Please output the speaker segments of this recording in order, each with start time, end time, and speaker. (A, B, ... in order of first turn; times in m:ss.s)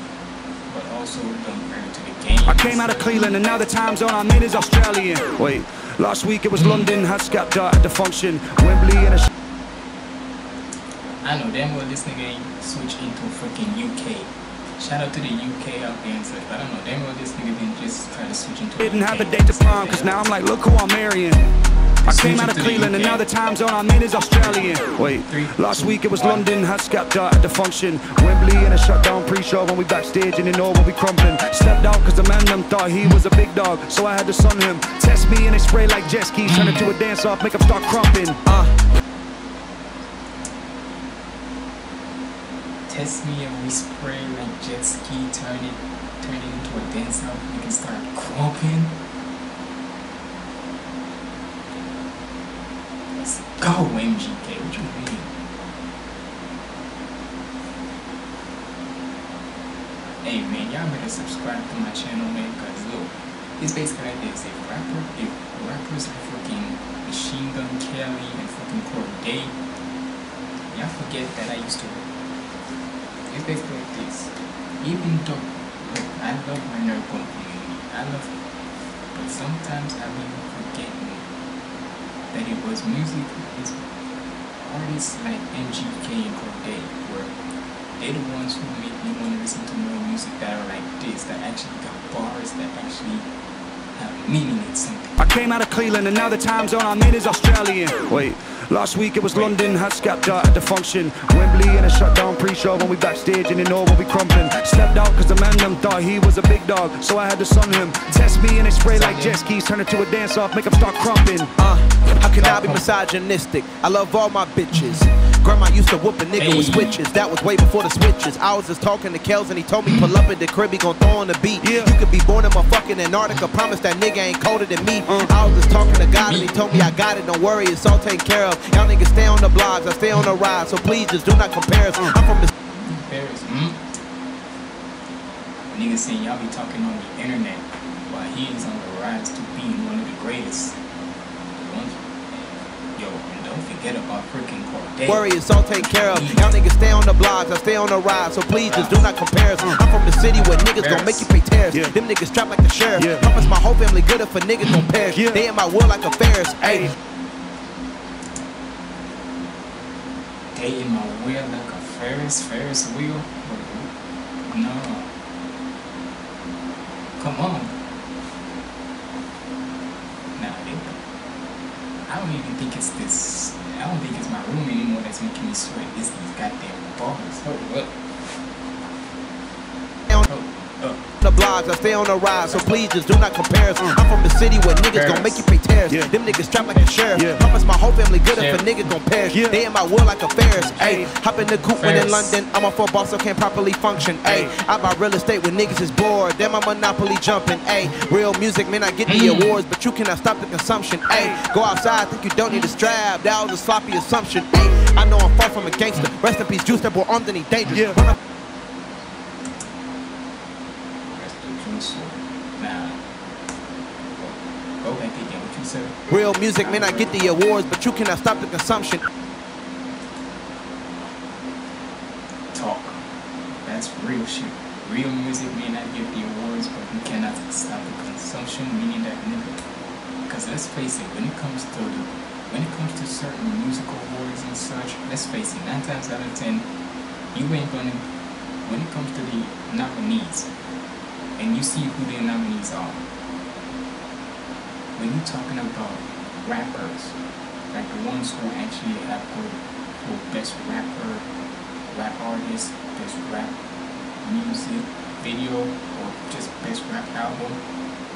0:00.7-0:03.3 A
0:02.4-0:09.3 B
0:06.6-0:06.9 A
0:11.2-0:20.4 A
0:18.8-0:21.4 B
0:22.1-0:23.2 A
0:22.1-0:38.4 B
0:24.4-0:26.5 A
0:36.4-0:37.0 A
0:38.4-0:38.7 C
0:42.9-0:49.0 A
0:53.2-0:55.3 A
1:00.2-1:09.6 A
1:10.7-1:12.0 A
1:13.3-1:18.3 A
1:19.1-1:21.2 A
1:22.3-1:23.8 A
1:24.6-1:27.4 A
1:28.0-1:33.3 A
1:33.9-1:35.2 A
1:35.2-1:51.5 B
1:39.3-1:39.8 A
1:48.9-1:49.4 A
1:51.6-2:12.5 C
1:52.4-1:52.8 B
1:54.7-1:55.0 A
1:56.4-1:57.0 A
1:59.8-2:00.2 A
2:01.6-2:02.0 B
2:05.0-2:05.4 B
2:05.3-2:06.9 A
2:10.1-2:10.4 A
2:12.7-2:13.8 A
2:15.7-2:20.8 A
2:21.6-2:26.6 A
2:25.1-2:36.9 C
2:28.7-2:29.1 A
2:30.3-2:31.3 A
2:33.0-2:33.3 B
2:34.6-2:34.9 A
2:35.1-2:35.4 B
2:36.6-2:36.9 B
2:40.5-2:43.9 A
2:44.5-2:45.1 A
2:47.2-2:47.8 A
2:50.4-2:51.0 A
2:52.0-2:57.9 A
3:00.2-3:01.0 A
3:01.2-3:28.2 C
3:02.4-3:02.8 A
3:04.8-3:05.5 A
3:06.2-3:07.2 A
3:07.2-3:07.4 B
3:08.3-3:08.9 A
3:09.3-3:09.6 B
3:10.4-3:11.0 A
3:10.8-3:11.0 B
3:11.6-3:12.4 A
3:14.2-3:14.5 B
3:15.6-3:15.9 A
3:19.1-3:19.6 A
3:22.5-3:22.8 A
3:27.7-3:28.0 B
3:31.1-3:33.0 A
3:34.2-3:36.0 A
3:36.1-3:39.0 C
3:36.6-3:37.5 A
3:42.5-3:43.0 A
3:43.6-3:49.6 A
3:50.3-3:56.7 A
3:57.3-3:58.0 A
3:58.6-4:00.5 A
4:01.4-4:03.0 A
4:05.0-4:07.2 A
4:07.7-4:11.3 A
4:11.9-4:13.5 A
4:14.2-4:17.6 A